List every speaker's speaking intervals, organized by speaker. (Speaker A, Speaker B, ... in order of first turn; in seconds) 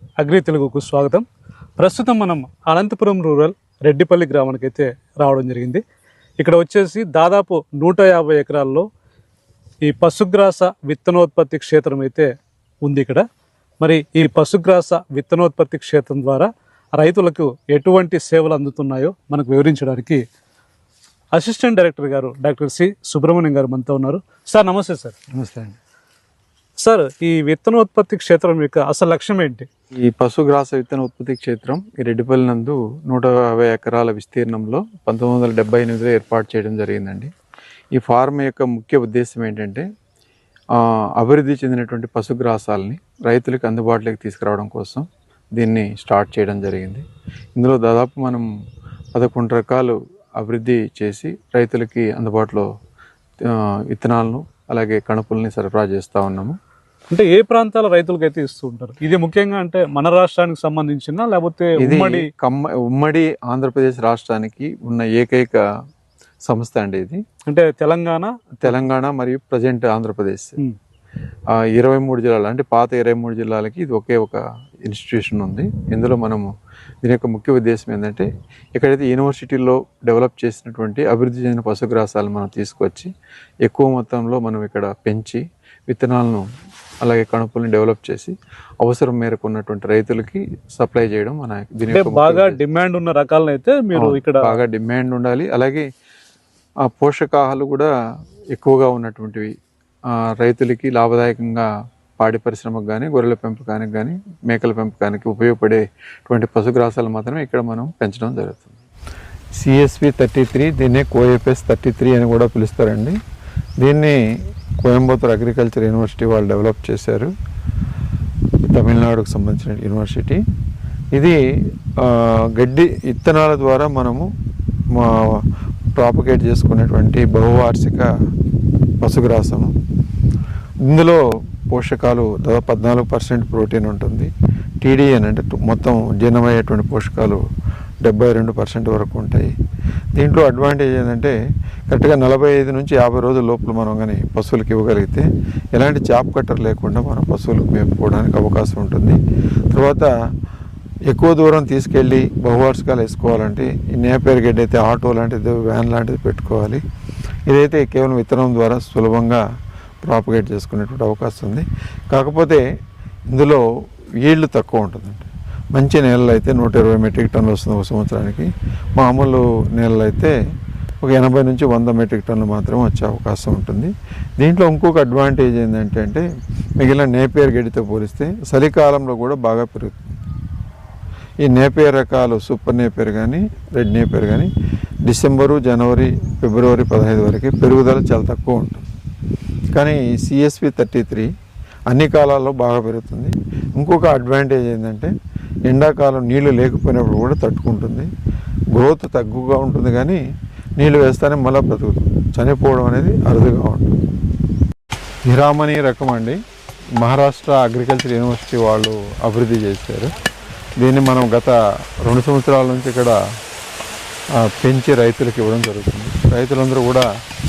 Speaker A: 0.2-1.2, 1.8-5.8, 6.4-8.8, 9.8-12.3, 12.8-13.2, 13.8-20.2, 21.3-25.1, 26.8-29.7, 57.1-62.3, 67.5-68.9, 91.9-94.6
Speaker B: 25.4-25.8, 30.0-37.3, 37.9-39.8, 40.8-45.0, 45.6-47.0, 47.5-48.5, 49.1-52.7, 53.5-56.5, 61.8-65.6, 66.5-67.2, 68.6-70.6, 71.7-76.5, 77.0-83.1, 83.6-86.4, 87.0-92.6, 94.0-95.8, 96.9-97.9, 98.5-99.5, 100.4-101.7, 102.2-108.8, 109.6-113.2, 113.8-114.2, 114.8-117.3, 118.7-120.4, 122.0-124.3, 125.0-125.4, 126.0-128.1, 129.0-129.7, 130.9-134.3, 134.8-137.4, 138.0-139.5, 140.2-141.3, 141.9-149.2, 149.7-150.1, 151.1-156.8, 157.5-159.4, 160.0-162.6, 163.3-163.6, 164.2-170.3, 171.0-176.2, 176.8-180.1, 181.4-184.5, 185.0-188.8, 189.7-191.3, 191.9-195.1, 195.7-198.1, 198.8-200.2, 200.8-203.9, 205.3-206.4, 207.0-210.1, 210.8-213.2, 214.4-217.1